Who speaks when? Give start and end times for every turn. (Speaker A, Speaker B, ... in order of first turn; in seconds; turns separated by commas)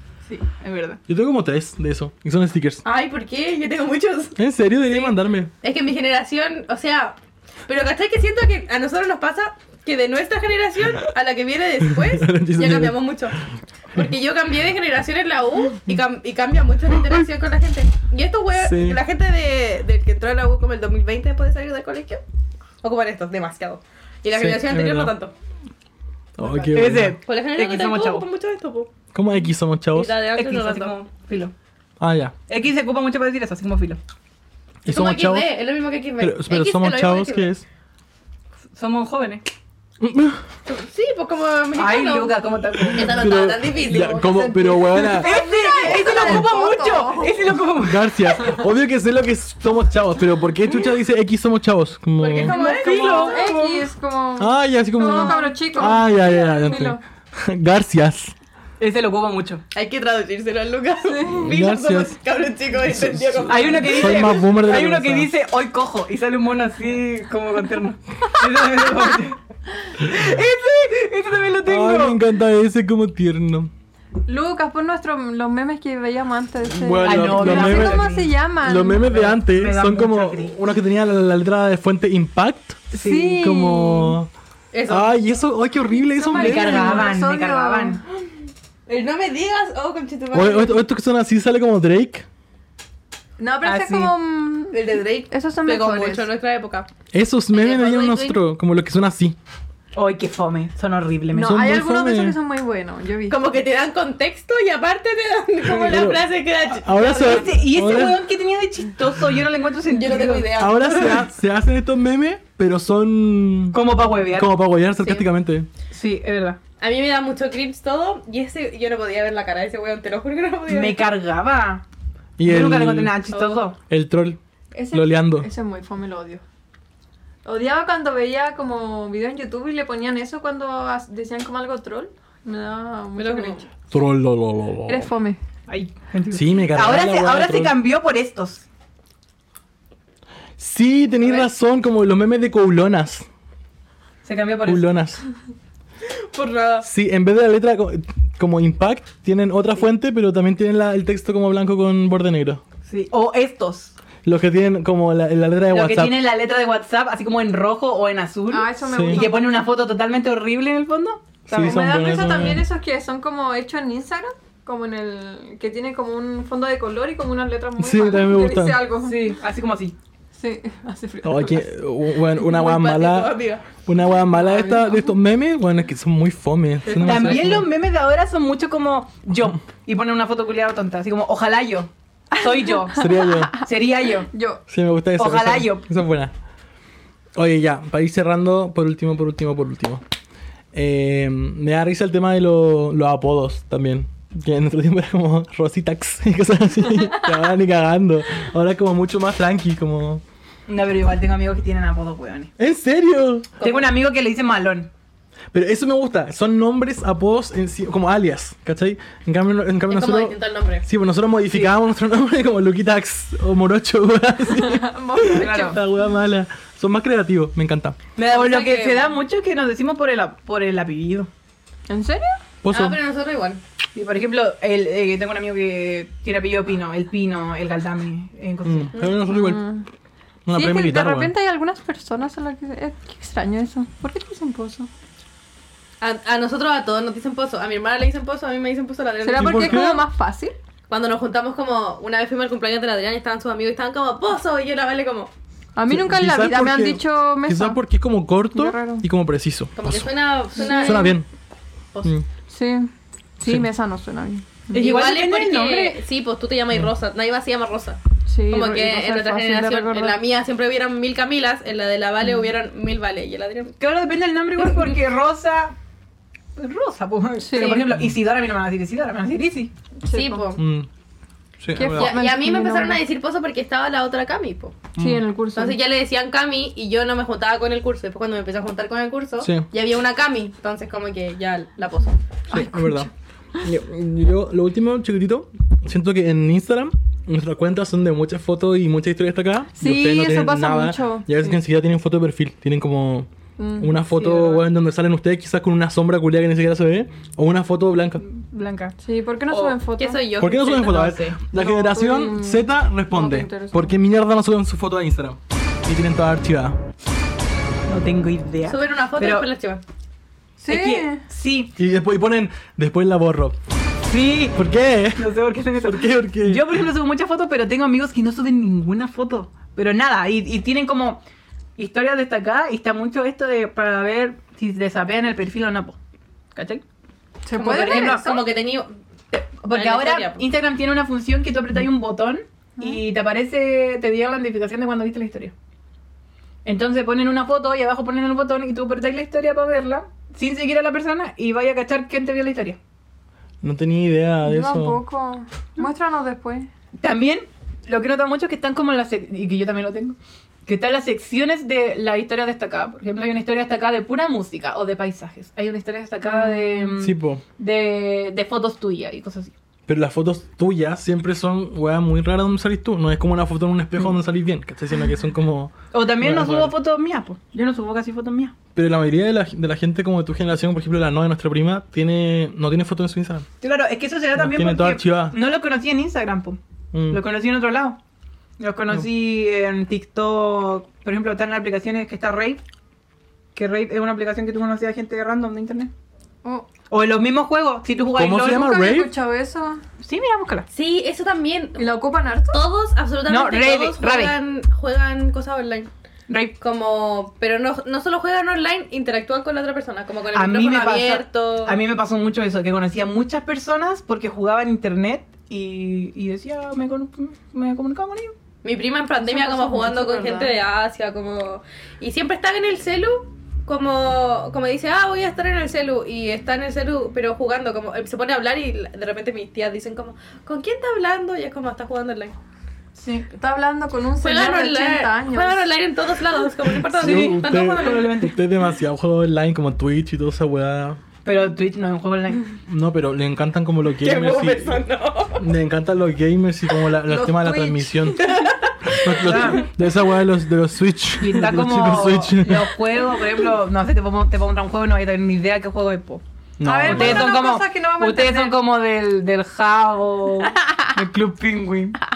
Speaker A: 0.2-1.0, Speaker B: 1.1-2.8, Speaker C: 2.8-13.3, Speaker B: 4.3-5.5, Speaker B: 11.9-13.0, Speaker C: 13.9-22.2, Speaker B: 18.5-19.0, Speaker C: 22.8-25.3, Speaker B: 24.3-25.1, Speaker B: 26.4-27.2, Speaker C: 26.4-28.9, Speaker A: 26.7-28.2, Speaker B: 29.1-30.1, Speaker C: 29.9-31.0, Speaker A: 30.3-31.5, Speaker B: 32.0-32.3, Speaker A: 32.5-34.0, Speaker B: 34.8-35.5, Speaker C: 34.9-37.5, Speaker B: 36.2-37.6, Speaker A: 38.7-39.4, Speaker B: 40.0-40.4, Speaker C: 40.6-44.6, Speaker A: 41.7-43.4, Speaker B: 42.9-45.3, Speaker A: 44.1-48.5, Speaker D: 45.1-47.5, Speaker B: 46.2-46.5, Speaker B: 47.7-52.5, Speaker C: 52.2-53.6, Speaker A: 52.5-53.9, Speaker D: 52.8-57.0, Speaker B: 54.4-58.3, Speaker C: 55.0-55.5, Speaker A: 58.8-59.6, Speaker C: 59.7-64.3, Speaker D: 61.0-61.5, Speaker B: 61.4-62.2, Speaker B: 62.7-65.3, Speaker A: 63.5-69.4, Speaker A: 70.0-72.2, Speaker B: 71.6-73.7, Speaker D: 74.2-79.3, Speaker B: 76.6-78.1, Speaker A: 77.0-78.3, Speaker B: 78.6-84.3, Speaker A: 78.9-80.6, Speaker A: 82.9-83.3, Speaker D: 82.9-84.2, Speaker C: 84.7-85.1, Speaker B: 84.9-87.1, Speaker D: 86.2-88.0, Speaker A: 86.3-88.0, Speaker C: 88.9-90.8, Speaker B: 90.3-92.2, Speaker D: 93.4-96.3, Speaker A: 93.6-94.1, Speaker C: 94.7-96.9, Speaker B: 97.1-99.4, Speaker C: 97.5-98.4, Speaker A: 99.9-101.6, Speaker D: 101.3-103.4, Speaker B: 101.4-102.4, Speaker C: 103.3-107.6, Speaker A: 105.6-106.1, Speaker B: 105.8-108.2, Speaker A: 107.0-111.2, Speaker C: 109.9-111.2, Speaker B: 110.6-115.7, Speaker A: 113.7-114.8, Speaker C: 115.0-115.2, Speaker A: 115.9-116.6, Speaker C: 116.8-121.1, Speaker A: 120.7-121.8, Speaker B: 122.4-123.2, Speaker A: 122.4-123.8, Speaker C: 123.3-123.6, Speaker B: 123.9-124.4, Speaker D: 124.7-126.4, Speaker B: 124.9-125.5, Speaker D: 127.4-133.7, Speaker C: 133.2-133.6, Speaker B: 133.9-135.1, Speaker D: 134.9-135.4, Speaker A: 135.7-138.6, Speaker B: 136.3-137.8, Speaker B: 140.6-143.2, Speaker C: 141.2-141.5, Speaker A: 144.2-144.9, Speaker B: 144.6-145.2, Speaker C: 146.0-146.8, Speaker B: 146.8-152.6, Speaker A: 152.8-153.9, Speaker B: 154.2-156.3, Speaker A: 155.7-161.9, Speaker D: 158.5-159.7, Speaker B: 158.9-159.2, Speaker B: 161.5-162.7, Speaker D: 161.6-169.3, Speaker B: 167.8-168.9, Speaker A: 169.0-169.9, Speaker D: 170.3-171.7, Speaker B: 171.2-177.7, Speaker C: 172.4-173.7, Speaker D: 174.3-175.1, Speaker C: 176.8-177.6, Speaker A: 177.0-183.1, Speaker B: 182.9-183.5, Speaker D: 182.9-183.6, Speaker A: 183.6-184.3, Speaker D: 184.3-184.6, Speaker B: 184.7-186.3, Speaker A: 185.2-185.9, Speaker B: 187.3-190.0, Speaker B: 190.7-200.2, Speaker A: 200.7-202.5, Speaker B: 202.6-203.5, Speaker C: 203.6-203.9, Speaker A: 203.6-204.9, Speaker B: 205.5-218.0, Speaker C: 209.9-210.8, Speaker D: 214.5-215.8, Speaker A: 215.3-215.8, Speaker C: 218.2-219.1, Speaker A: 218.3-221.3, Speaker D: 221.9-222.4, Speaker B: 222.6-223.0, Speaker C: 222.7-223.6, Speaker A: 223.9-228.9, Speaker B: 228.6-229.6, Speaker D: 229.2-229.8, Speaker B: 230.4-231.3, Speaker D: 230.5-234.9, Speaker C: 236.0-239.8, Speaker D: 239.2-240.5, Speaker B: 239.4-240.1, Speaker C: 240.9-245.3, Speaker D: 245.8-247.8, Speaker B: 245.9-251.2, Speaker D: 248.5-249.0, Speaker C: 249.8-251.2, Speaker D: 250.6-251.1, Speaker D: 252.5-254.9, Speaker B: 253.4-253.7, Speaker A: 254.7-256.0, Speaker C: 254.7-263.7, Speaker D: 258.2-260.2, Speaker A: 263.8-265.7, Speaker C: 264.6-264.9, Speaker A: 266.6-269.7, Speaker D: 267.4-267.8, Speaker C: 267.5-267.9, Speaker B: 267.9-268.2, Speaker D: 270.0-270.4, Speaker C: 270.1-270.6, Speaker B: 270.6-270.9, Speaker B: 271.6-272.2, Speaker D: 271.7-273.0, Speaker C: 271.9-274.9, Speaker B: 274.9-275.2, Speaker D: 274.9-275.8, Speaker C: 275.5-282.2, Speaker B: 279.4-279.7, Speaker D: 282.5-283.1, Speaker B: 282.5-283.1, Speaker B: 283.6-298.2, Speaker D: 289.8-291.6, Speaker D: 293.6-293.9, Speaker A: 294.1-294.7, Speaker A: 298.2-298.9, Speaker D: 299.0-300.2, Speaker A: 299.5-299.8, Speaker C: 299.9-301.4, Speaker B: 300.4-306.8, Speaker D: 301.5-303.9, Speaker A: 307.9-309.5, Speaker C: 308.6-309.8, Speaker D: 310.6-311.2, Speaker A: 310.7-311.7, Speaker B: 311.8-313.6, Speaker A: 314.1-321.2, Speaker B: 314.5-316.8, Speaker A: 321.8-326.0, Speaker A: 326.5-326.8, Speaker D: 327.4-328.4, Speaker C: 327.5-330.4, Speaker A: 327.6-328.4, Speaker A: 329.6-335.5, Speaker A: 336.6-342.8, Speaker B: 343.6-345.0, Speaker D: 344.4-346.7, Speaker A: 347.0-359.5, Speaker D: 356.2-356.9, Speaker B: 357.0-357.4, Speaker B: 359.9-366.7, Speaker A: 365.9-368.5, Speaker B: 368.7-373.5, Speaker A: 373.6-376.6, Speaker B: 374.4-375.4, Speaker B: 376.9-377.2, Speaker A: 377.1-378.0, Speaker A: 378.6-382.6, Speaker A: 383.5-385.9, Speaker A: 386.9-388.7, Speaker B: 388.1-389.1, Speaker D: 388.4-389.8, Speaker A: 390.0-390.7, Speaker C: 390.7-395.9, Speaker D: 391.8-392.6, Speaker A: 393.3-394.4, Speaker A: 396.3-396.6, Speaker C: 396.6-401.8, Speaker A: 400.3-408.3, Speaker C: 408.6-422.3, Speaker A: 409.2-410.5, Speaker A: 422.9-423.2, Speaker D: 423.3-425.7, Speaker C: 424.2-428.1, Speaker B: 426.8-431.0, Speaker A: 426.9-428.3, Speaker A: 431.2-432.5, Speaker B: 432.7-434.8, Speaker C: 434.0-435.4, Speaker B: 435.4-438.3, Speaker D: 437.1-438.0, Speaker C: 438.2-439.6, Speaker B: 438.9-442.7, Speaker A: 439.2-439.7, Speaker A: 441.2-446.2, Speaker B: 446.6-447.4, Speaker D: 446.6-448.6, Speaker A: 446.9-452.0